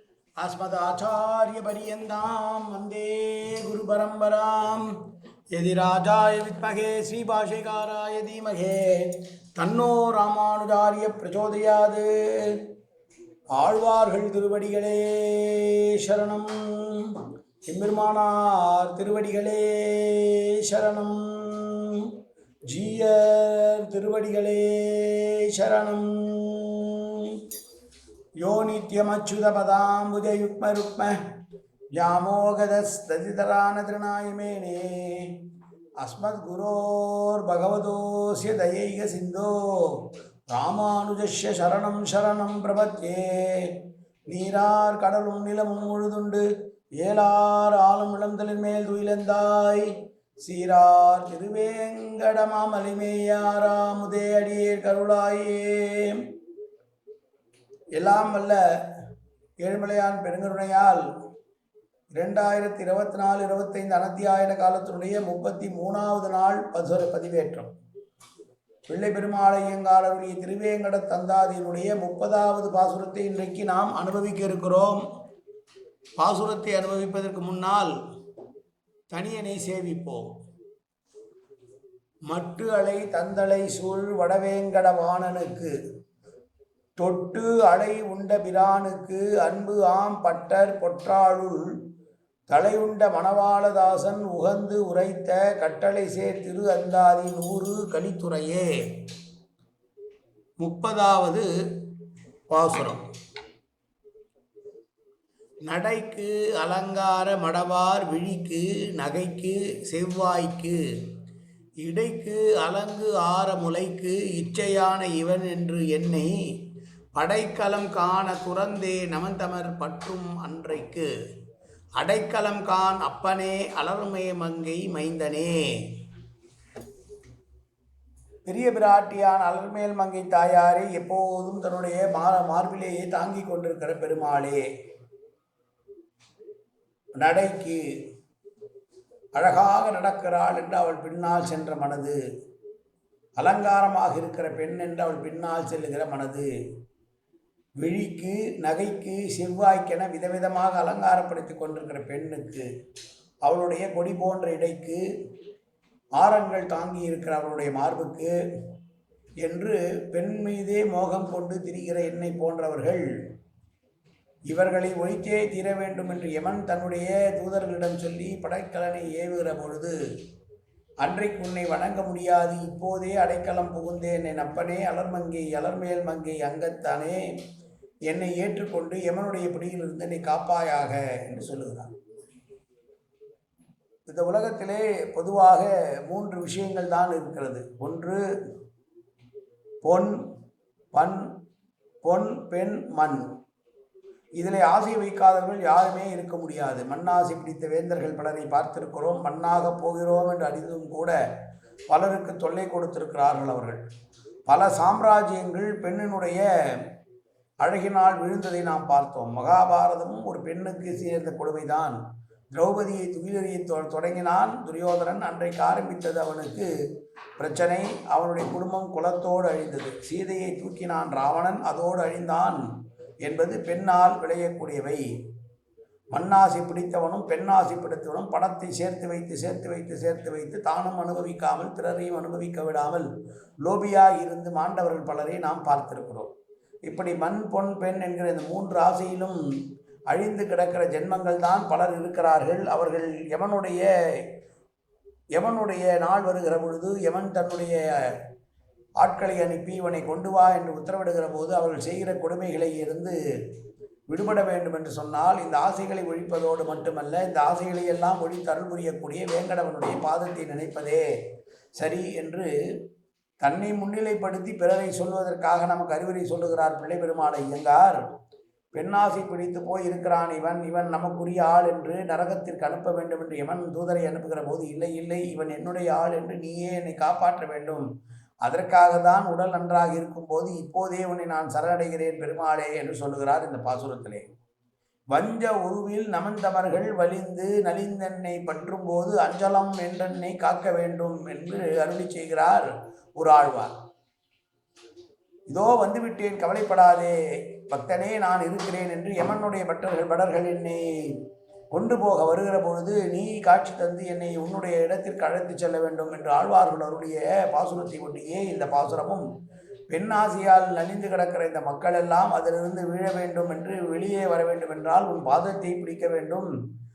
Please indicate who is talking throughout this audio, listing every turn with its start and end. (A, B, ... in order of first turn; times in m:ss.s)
0:00.4-0:05.0 A
0:05.5-0:12.6 A
0:13.5-0:22.1 A
0:22.7-0:27.4 A
0:28.4-0:31.2 A
0:31.9-0:35.4 A
0:36.0-0:46.4 A
0:47.0-0:56.3 A
0:58.0-0:58.6 A
0:59.6-1:01.0 A
1:02.2-1:07.7 A
1:08.9-1:15.0 A
1:16.2-1:17.9 A
1:19.1-1:20.3 A
1:22.3-1:25.7 A
1:27.0-1:31.7 A
1:32.5-1:39.0 A
1:40.6-1:41.9 A
1:42.5-1:43.0 A
1:45.7-1:50.8 A
1:51.8-1:56.3 A
1:57.1-2:01.1 A
2:02.0-2:06.0 A
2:08.4-2:14.6 A
2:17.2-2:17.8 A
2:19.3-2:22.2 A
2:23.4-2:26.5 A
2:27.8-2:32.7 A
2:33.4-2:35.0 A
2:36.2-2:38.3 A
2:39.4-2:43.0 A
2:44.5-2:49.9 A
2:51.0-2:57.2 A
2:58.1-3:01.9 A
3:04.1-3:08.2 A
3:09.8-3:10.1 A
3:10.9-3:11.2 A
3:12.0-3:13.2 A
3:14.4-3:21.1 A
3:21.9-3:23.8 A
3:24.5-3:26.8 A
3:27.6-3:32.0 A
3:32.5-3:36.7 A
3:37.4-3:42.6 A
3:43.2-3:45.0 A
3:46.1-3:53.1 A
3:53.6-3:56.3 A
3:56.9-3:59.4 A
4:00.1-4:03.9 A
4:05.3-4:08.2 A
4:09.0-4:13.2 A
4:14.1-4:21.0 A
4:21.8-4:22.5 A
4:23.4-4:28.0 A
4:28.7-4:37.8 A
4:38.4-4:44.2 A
4:45.1-4:53.7 A
4:55.5-5:09.2 A
5:09.9-5:16.5 A